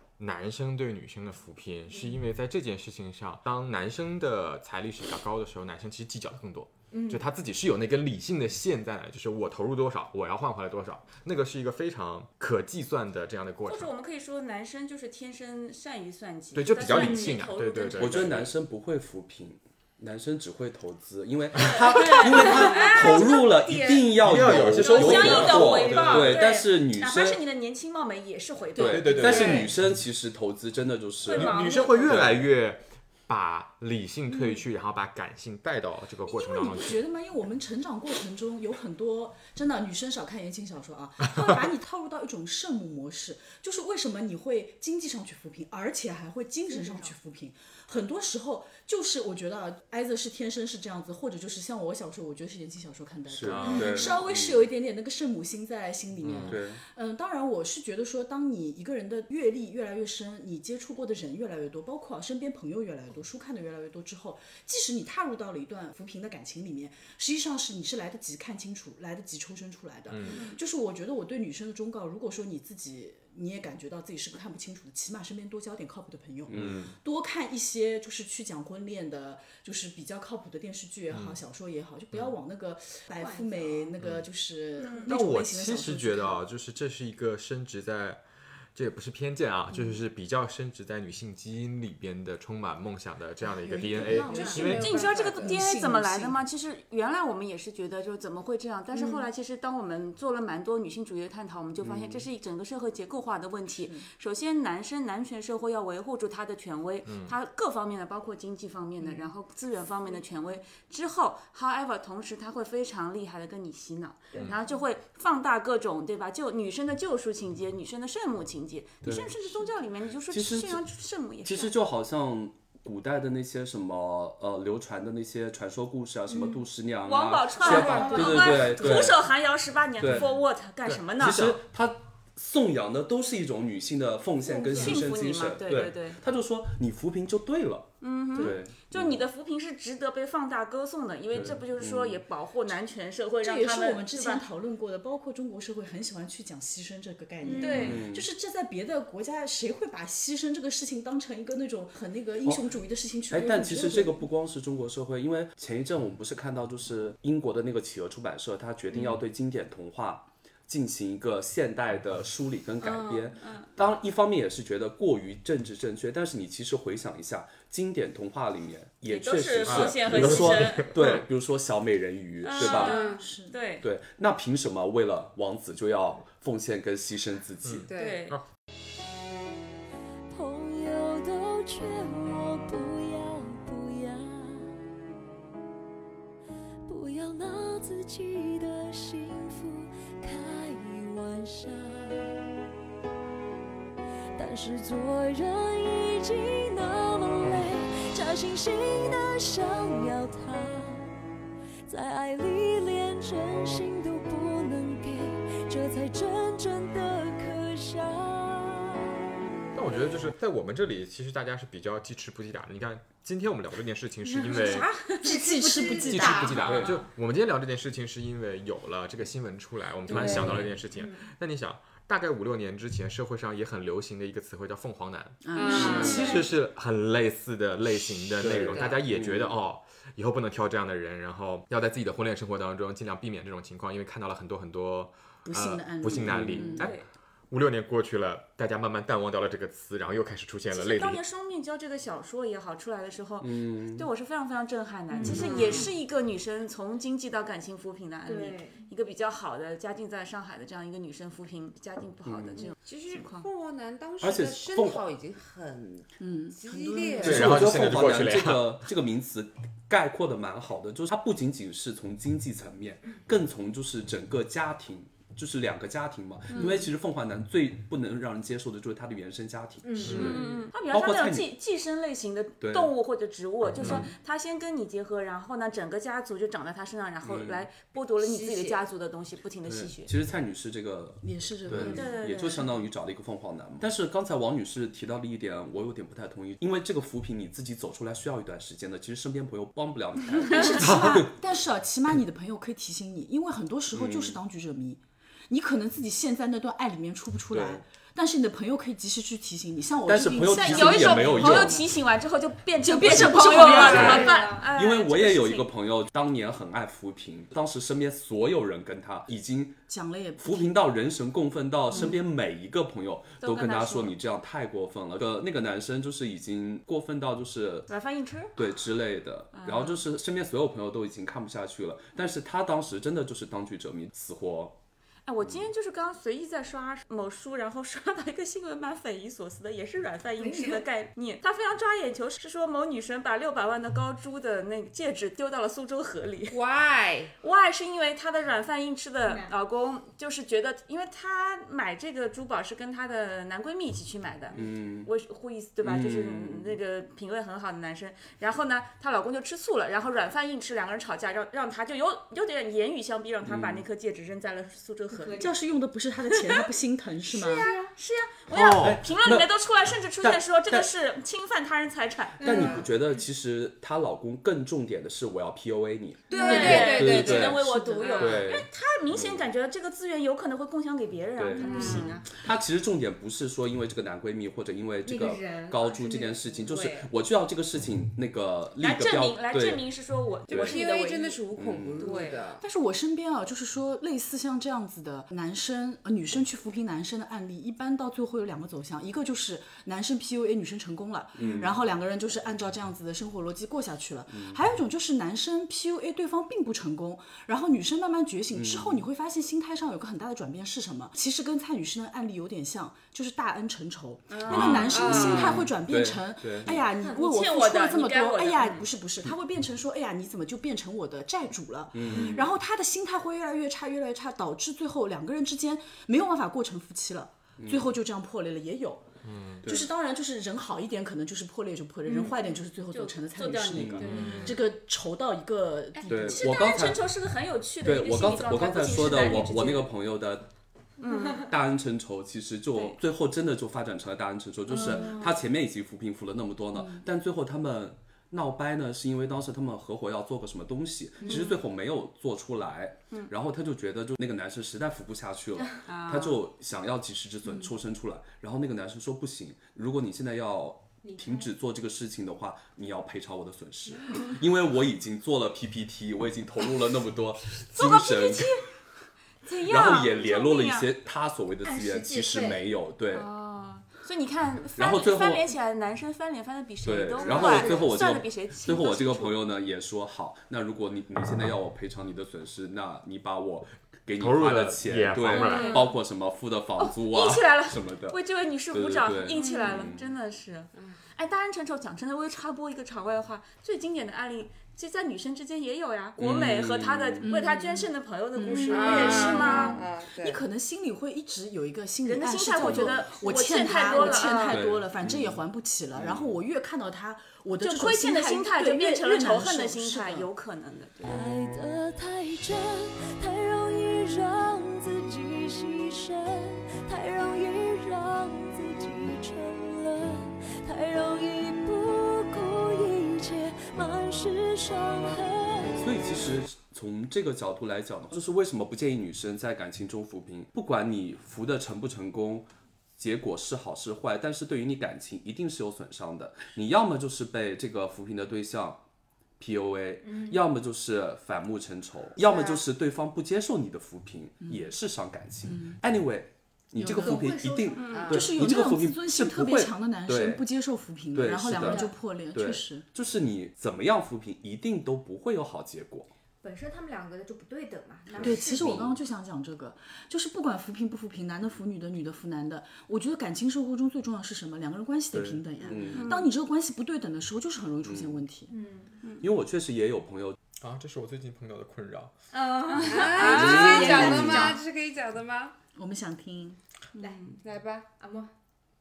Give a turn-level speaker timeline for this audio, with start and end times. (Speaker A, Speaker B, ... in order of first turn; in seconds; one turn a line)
Speaker A: 0.2-13.9
Speaker B: 6.9-7.2
Speaker C: 13.7-18.4
Speaker A: 16.6-18.5
Speaker B: 16.9-17.4
Speaker D: 18.0-27.4
Speaker C: 21.7-24.1
Speaker A: 24.1-26.4
Speaker C: 24.7-29.7
Speaker D: 28.8-32.5
Speaker A: 28.8-29.7
Speaker C: 31.2-32.3
Speaker A: 31.3-37.0
Speaker E: 36.3-86.4
Speaker B: 46.7-47.1
Speaker D: 53.3-54.7
Speaker A: 53.4-54.1
Speaker A: 56.2-56.6
Speaker D: 56.4-56.8
Speaker A: 70.1-70.4
Speaker D: 76.5-76.9
Speaker A: 76.5-76.9
Speaker A: 81.1-81.4
Speaker B: 83.2-84.0
Speaker A: 84.0-84.3
Speaker C: 84.8-85.1
Speaker A: 85.0-88.2
Speaker A: 88.8-95.0
Speaker E: 93.5-96.4
Speaker B: 94.0-95.4
Speaker C: 94.6-121.7
Speaker F: 94.9-95.3
Speaker D: 101.8-102.3
Speaker E: 103.8-104.1
Speaker A: 107.1-107.3
Speaker D: 119.0-119.7
Speaker D: 120.3-120.8
Speaker D: 121.4-129.3
Speaker B: 126.3-126.6
Speaker C: 127.0-131.4
Speaker B: 127.6-128.9
Speaker F: 127.7-128.5
Speaker D: 130.0-130.3
Speaker A: 130.8-131.6
Speaker D: 131.2-139.2
Speaker B: 134.4-135.1
Speaker C: 134.7-136.2
Speaker C: 138.0-144.4
Speaker D: 141.3-142.2
Speaker E: 143.4-154.2
Speaker B: 147.4-147.9
Speaker C: 147.5-148.0
Speaker D: 147.6-148.3
Speaker D: 153.3-173.0
Speaker C: 162.8-163.7
Speaker C: 169.1-171.2
Speaker A: 169.7-171.3
Speaker C: 172.4-173.9
Speaker F: 172.6-173.3
Speaker E: 173.0-173.6
Speaker D: 173.8-177.9
Speaker A: 177.6-178.4
Speaker F: 177.9-178.3
Speaker C: 177.9-178.4
Speaker G: 180.3-184.8
Speaker G: 186.9-192.4
Speaker G: 194.4-201.1
Speaker G: 201.9-209.2
Speaker A: 209.7-214.9
Speaker B: 214.3-216.9
Speaker E: 214.5-216.8
Speaker A: 215.8-237.0
Speaker D: 216.6-217.0
Speaker F: 220.1-220.6
Speaker D: 220.1-220.7
Speaker B: 220.9-221.3
Speaker E: 225.4-226.2
Speaker F: 225.5-226.4
Speaker B: 225.8-226.4
Speaker D: 228.4-229.6
Speaker F: 228.5-229.0
Speaker E: 235.4-236.9
Speaker D: 236.1-236.9
Speaker C: 236.8-237.1
Speaker A: 237.5-241.2
Speaker C: 240.7-253.5
Speaker D: 243.4-244.1
Speaker B: 245.1-245.9
Speaker E: 245.2-245.8
Speaker F: 245.4-245.7
Speaker B: 248.2-248.9
Speaker D: 252.2-252.7
Speaker F: 252.8-257.7
Speaker D: 254.2-255.1
Speaker E: 256.2-257.9
Speaker A: 257.2-258.8
Speaker D: 257.2-271.5
Speaker B: 269.8-270.5
Speaker A: 270.0-270.4
Speaker C: 270.1-280.1
Speaker D: 272.6-272.9
Speaker A: 273.8-274.1
Speaker E: 273.8-274.1
Speaker D: 277.2-277.7
Speaker F: 278.2-278.8
Speaker D: 279.6-291.3
Speaker E: 281.2-282.1
Speaker B: 281.8-282.2
Speaker C: 281.9-282.7
Speaker E: 290.5-301.9
Speaker D: 293.9-294.4
Speaker D: 297.5-297.8
Speaker D: 300.1-301.8
Speaker C: 300.5-305.7
Speaker E: 302.8-304.4
Speaker B: 303.5-304.7
Speaker D: 303.9-309.8
Speaker E: 309.9-310.9
Speaker D: 310.4-317.9
Speaker C: 313.4-314.1
Speaker C: 317.9-318.6
Speaker D: 318.6-324.8
Speaker C: 319.5-320.0
Speaker C: 325.3-336.6
Speaker B: 330.4-330.9
Speaker F: 336.5-337.3
Speaker C: 337.4-355.5
Speaker B: 339.2-339.6
Speaker D: 344.5-345.1
Speaker D: 345.8-346.8
Speaker D: 353.4-353.9
Speaker B: 355.1-355.5
Speaker E: 355.4-357.7
Speaker C: 357.3-362.8
Speaker B: 357.4-357.9
Speaker A: 358.5-359.0
Speaker D: 358.5-359.5
Speaker D: 360.2-360.9
Speaker B: 362.4-363.2
Speaker D: 362.4-369.5
Speaker F: 366.3-368.5
Speaker C: 366.3-372.2
Speaker B: 366.3-367.0
Speaker A: 368.2-368.5
Speaker D: 371.4-379.9
Speaker B: 371.6-372.2
Speaker F: 371.8-372.1
Speaker B: 375.1-376.6
Speaker F: 376.6-377.1
Speaker C: 378.8-381.4
Speaker D: 380.5-380.8
Speaker F: 380.5-382.6
Speaker D: 381.6-382.2
Speaker C: 382.0-382.4
Speaker E: 382.6-419.1
Speaker D: 391.4-391.8
Speaker D: 394.3-394.6
Speaker D: 398.5-399.1
Speaker C: 404.3-405.4
Speaker D: 404.5-406.9
Speaker F: 405.0-405.4
Speaker C: 407.0-408.9
Speaker D: 411.9-412.5
Speaker D: 417.6-417.9
Speaker A: 419.2-419.6
Speaker D: 419.6-419.9
Speaker E: 419.6-426.8
Speaker C: 422.9-424.4
Speaker D: 423.7-424.5
Speaker B: 424.0-424.5
Speaker A: 424.1-424.6
Speaker C: 425.9-429.9
Speaker D: 426.1-427.1
Speaker D: 427.8-430.5
Speaker C: 431.0-431.5
Speaker B: 431.1-431.4
Speaker D: 431.4-458.6
Speaker B: 434.7-435.4
Speaker E: 436.7-437.1
Speaker B: 441.2-441.6
Speaker C: 441.3-441.5
Speaker C: 445.9-446.3
Speaker B: 451.0-451.5
Speaker C: 457.5-458.7
Speaker C: 459.4-460.9
Speaker D: 459.6-463.3
Speaker B: 461.6-462.6
Speaker C: 463.1-469.4
Speaker D: 464.8-465.5
Speaker D: 466.8-478.2
Speaker B: 467.2-467.8
Speaker A: 474.2-475.8
Speaker C: 475.3-476.0
Speaker B: 475.6-475.9
Speaker C: 476.8-489.8
Speaker D: 478.7-480.1
Speaker B: 479.4-479.9
Speaker D: 486.2-487.3
Speaker E: 487.2-500.3
Speaker B: 488.5-488.9
Speaker F: 488.6-490.4
Speaker C: 492.1-494.6
Speaker D: 494.5-495.4
Speaker D: 495.9-496.4
Speaker C: 497.6-501.2
Speaker G: 501.0-516.0
Speaker D: 515.8-528.8
Speaker D: 529.4-540.4
Speaker B: 530.0-530.4
Speaker F: 532.2-532.6
Speaker E: 535.5-535.8
Speaker E: 536.8-537.3
Speaker B: 536.8-538.0
Speaker C: 537.8-538.1
Speaker F: 537.8-538.3
Speaker E: 538.1-542.9
Speaker D: 541.1-546.1
Speaker B: 541.5-541.9
Speaker B: 546.4-548.9
Speaker D: 548.1-549.0
Speaker E: 548.2-558.5
Speaker D: 555.1-556.1
Speaker C: 555.9-556.3
Speaker D: 557.8-558.2
Speaker B: 558.5-559.0
Speaker D: 559.2-560.4
Speaker A: 560.6-562.1
Speaker B: 562.3-564.5
Speaker C: 562.7-564.5
Speaker F: 562.8-565.6
Speaker D: 563.4-564.4
Speaker E: 563.9-564.1
Speaker E: 565.8-566.6
Speaker C: 566.9-567.4
Speaker F: 567.4-567.9
Speaker B: 568.0-568.3